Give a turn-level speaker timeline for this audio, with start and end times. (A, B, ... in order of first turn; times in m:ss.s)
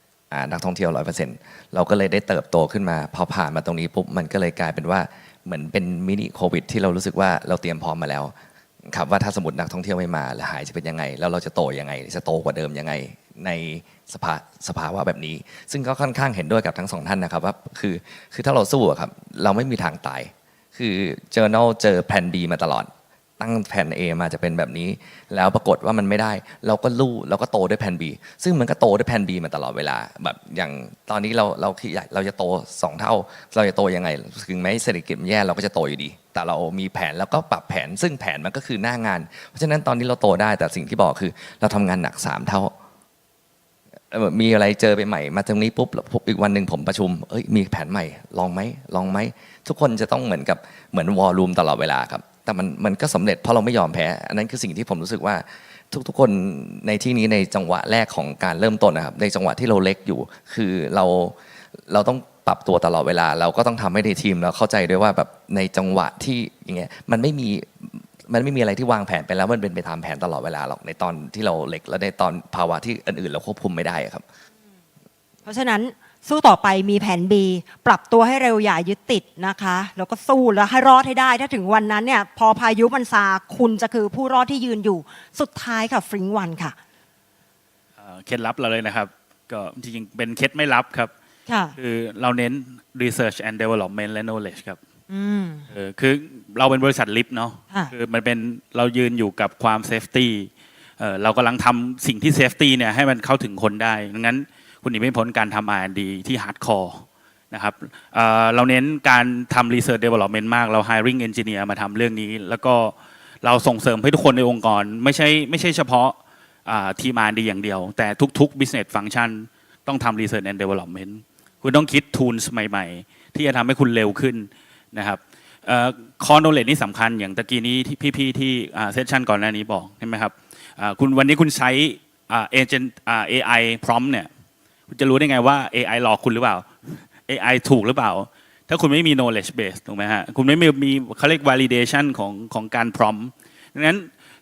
0:00.3-0:08.3 A
0:08.9-0:42.7 A
0:44.1-1:01.4 A
1:01.9-1:14.2 A
1:15.4-1:26.8 B
1:28.0-1:31.1 C
1:31.5-1:31.8 B
1:31.8-1:34.8 C
1:35.1-1:35.7 B
1:35.7-2:14.3 C
2:14.9-2:24.1 C